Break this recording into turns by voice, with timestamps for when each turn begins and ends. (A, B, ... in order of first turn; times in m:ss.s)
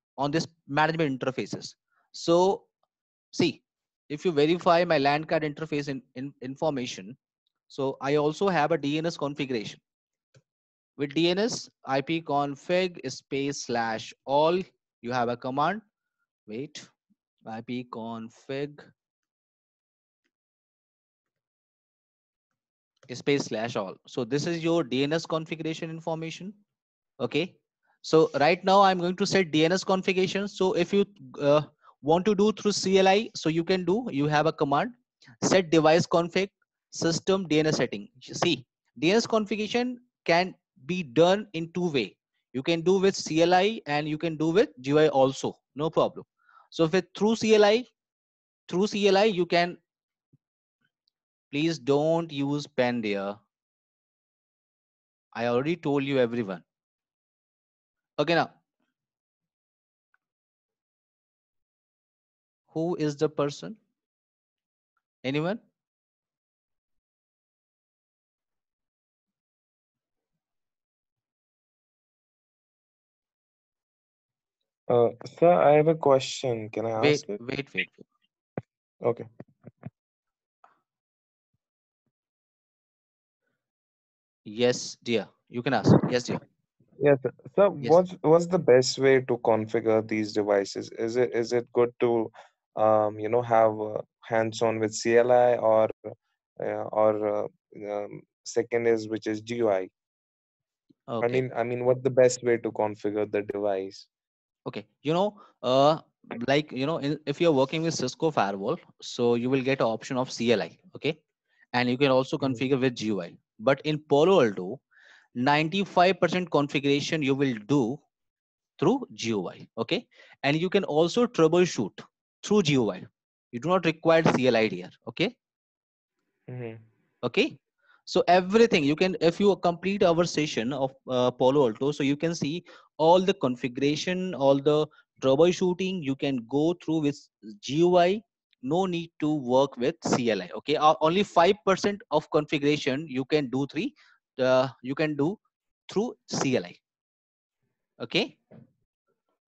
0:00.2-0:02.7 A
0:03.3-0:07.2 A
0:07.7-0:09.8 A
0:11.0-0:15.8 A
0:16.5-0:16.9 A
0:17.5-0:18.9 A
0:23.1-0:26.6 A
0:27.2-0:47.9 A
0:48.7-0:49.8 A
0:51.5-0:53.4 A
0:55.3-0:56.6 A
0:58.2-0:58.5 A
1:02.7-1:03.8 A
1:05.2-1:05.6 A
1:14.9-1:17.4 B
1:17.0-1:18.0 A
1:24.5-1:26.4 A
1:27.0-1:39.9 B
1:41.1-1:41.4 A
1:41.2-1:44.1 B
1:44.7-1:51.2 A
1:51.7-1:54.8 A
1:55.4-1:58.0 A
1:58.8-2:05.3 A
2:06.5-2:06.8 B
2:07.2-2:07.6 A
2:08.1-2:26.8 A
2:28.0-2:28.4 A